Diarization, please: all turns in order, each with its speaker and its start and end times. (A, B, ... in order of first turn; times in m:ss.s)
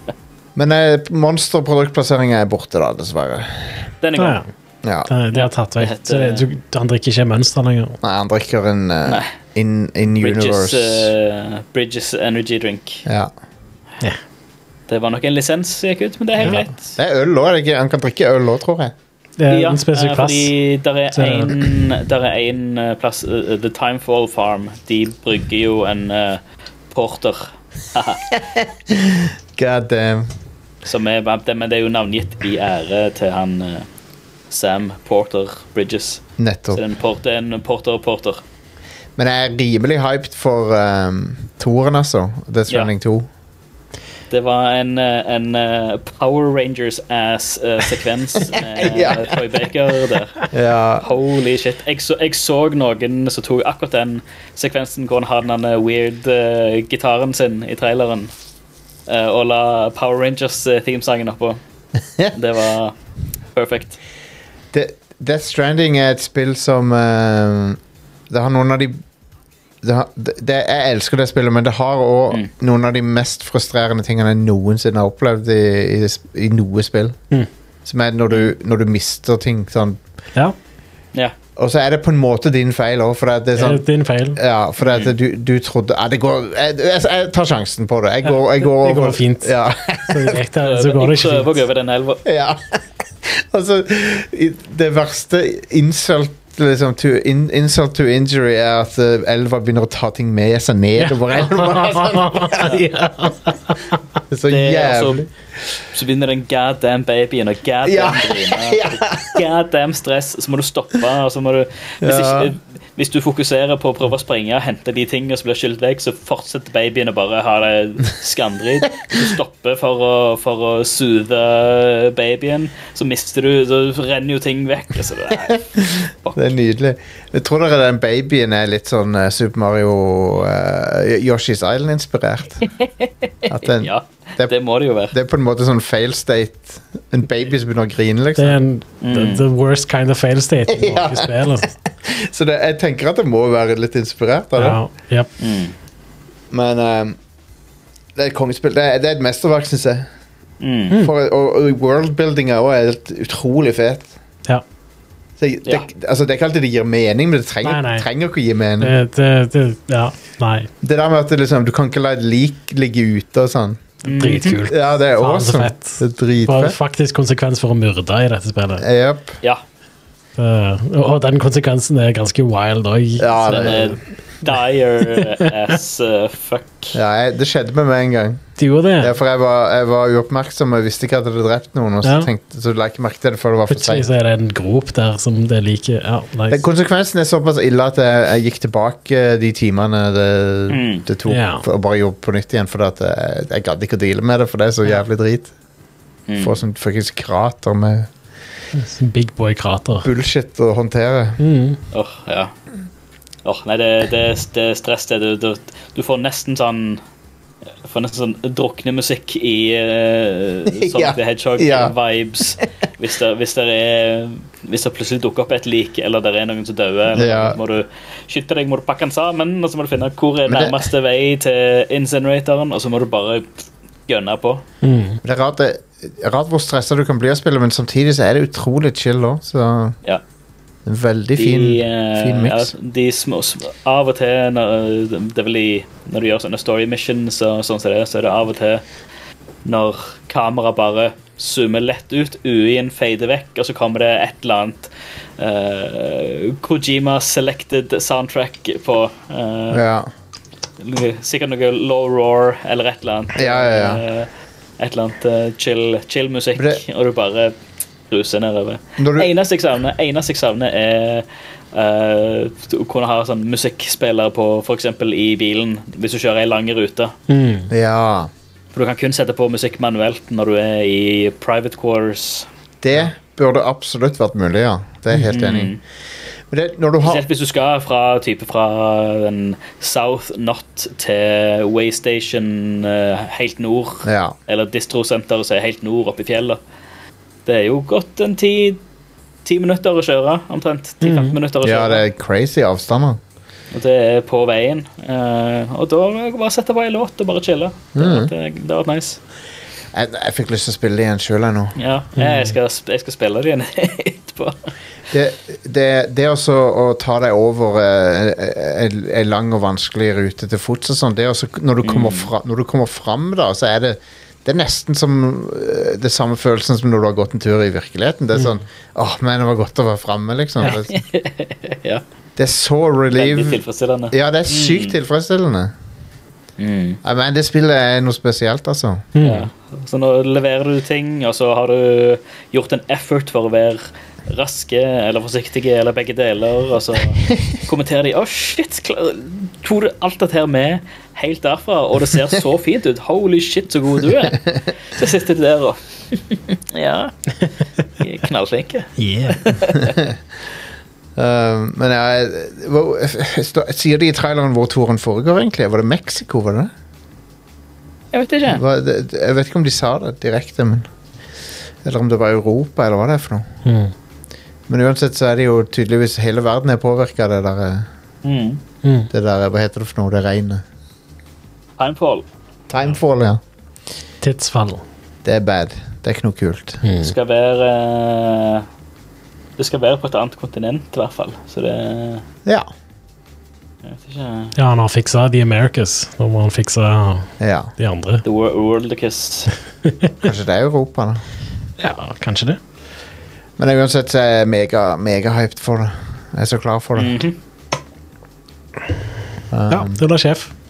0:00.6-0:03.9 A
0:04.0-0:04.4 B
0:04.2-0:04.5 C
0:04.8-0:05.1 A
0:05.1-0:08.0 C
0:05.3-0:06.4 B
0:08.0-0:11.1 A
0:10.2-0:13.0 B
0:13.0-0:13.3 A
0:14.9-0:16.9 B
0:16.4-0:18.9 A
0:19.4-0:20.5 C
0:19.5-0:28.3 B
0:21.1-0:21.7 C
0:28.3-0:30.3 A
0:30.8-0:33.8 B
0:34.5-0:38.4 B
0:36.4-0:36.8 A
0:39.2-0:43.3 A
0:44.3-0:50.5 B
0:48.5-0:49.4 A
0:50.5-0:51.1 A
0:51.0-0:58.3 B
0:59.1-1:01.6 B
1:02.3-1:02.9 B
1:03.5-1:04.0 B
1:04.7-1:07.8 A
1:08.3-1:09.0 A
1:09.8-1:17.2 A
1:17.8-1:20.0 A
1:21.6-1:30.4 A
1:23.6-1:24.4 C
1:24.8-1:25.1 B
1:28.8-1:31.5 C
1:30.6-1:32.2 B
1:32.2-1:42.8 A
1:41.0-1:44.0 C
1:44.3-1:45.3 A
1:44.5-1:45.3 B
1:45.9-2:06.5 B
1:47.8-1:49.4 A
1:52.0-1:52.5 A
2:05.8-2:12.7 A
2:13.5-2:14.5 A
2:13.5-2:15.1 B
2:15.1-2:18.6 A
2:18.4-2:21.7 C
2:19.0-2:19.4 B
2:20.7-2:24.8 A
2:24.6-2:25.3 C
2:25.4-2:25.7 B
2:26.5-2:27.2 A
2:28.2-2:30.1 A
2:30.6-2:31.0 B
2:30.9-2:34.1 A
2:35.4-2:38.9 A
2:37.6-2:38.1 C
2:38.8-2:40.7 C
2:40.8-2:43.9 A
2:44.0-2:44.6 B
2:44.0-2:48.8 C
2:44.6-2:46.8 A
2:48.8-2:49.4 A
2:50.4-2:53.9 C
2:53.2-2:54.0 A
2:53.5-2:57.0 B
2:56.9-2:58.4 A
2:58.6-2:59.1 C
2:59.0-3:04.1 A
3:02.0-3:02.3 C
3:03.7-3:06.6 C
3:06.5-3:15.5 A
3:10.7-3:11.0 B
3:11.3-3:11.6 C
3:16.3-3:16.6 B
3:16.4-3:18.1 A
3:18.7-3:20.1 C
3:20.0-3:21.4 A
3:21.4-3:21.8 C
3:21.9-3:22.5 B
3:23.4-3:27.0 B
3:27.8-3:44.6 B
3:30.7-3:31.9 A
3:37.1-3:37.6 A
3:40.5-3:40.9 A
3:44.8-3:45.2 C
3:45.2-3:50.0 A
3:50.8-3:52.7 A
3:51.4-3:58.8 B
3:59.6-4:09.8 B
4:09.7-4:10.1 A
4:10.8-4:17.5 B
4:13.3-4:14.0 A
4:16.6-4:16.8 A
4:18.1-4:27.1 B
4:19.0-4:19.3 A
4:27.3-4:27.7 C
4:27.7-4:28.3 A
4:28.7-4:32.5 B
4:32.8-4:35.7 A
4:35.2-4:35.8 B
4:36.5-4:37.2 A
4:37.0-4:46.6 B
4:44.0-4:44.3 A
4:47.4-4:48.8 B
4:49.4-4:52.0 B
4:51.0-4:51.4 C
4:51.6-4:53.2 A
4:53.7-4:59.2 B
4:57.9-4:58.3 A
4:59.9-5:01.8 A
5:01.8-5:04.7 B
5:02.2-5:02.5 C
5:05.1-5:20.9 A
5:11.8-5:12.3 B
5:20.6-5:22.0 B
5:22.4-5:25.7 A
5:23.1-5:25.0 B
5:26.6-5:27.0 B
5:27.0-5:29.0 A
5:29.1-5:29.5 C
5:29.2-5:47.1 B
5:48.0-5:50.0 B
5:49.0-5:49.5 C
5:51.2-5:56.7 A
5:58.1-5:58.6 B
5:58.4-6:00.9 A
6:01.8-6:03.5 A
6:03.6-6:03.9 C
6:04.7-6:07.9 A
6:08.2-6:08.6 B
6:08.8-6:09.1 C
6:09.1-6:10.6 A
6:11.8-6:12.2 B
6:12.7-6:13.4 A
6:14.2-6:14.8 C
6:15.2-6:16.8 A
6:16.8-6:17.1 C
6:17.0-6:18.6 B
6:19.6-6:22.2 B
6:23.8-6:24.5 B
6:24.6-6:28.2 C
6:27.4-6:27.7 A
6:28.2-6:29.5 B
6:29.8-6:30.1 C
6:30.2-6:31.2 A
6:31.8-6:32.6 C
6:33.6-6:37.2 A
6:37.0-6:37.4 B
6:39.5-6:40.0 A
6:39.7-6:40.5 C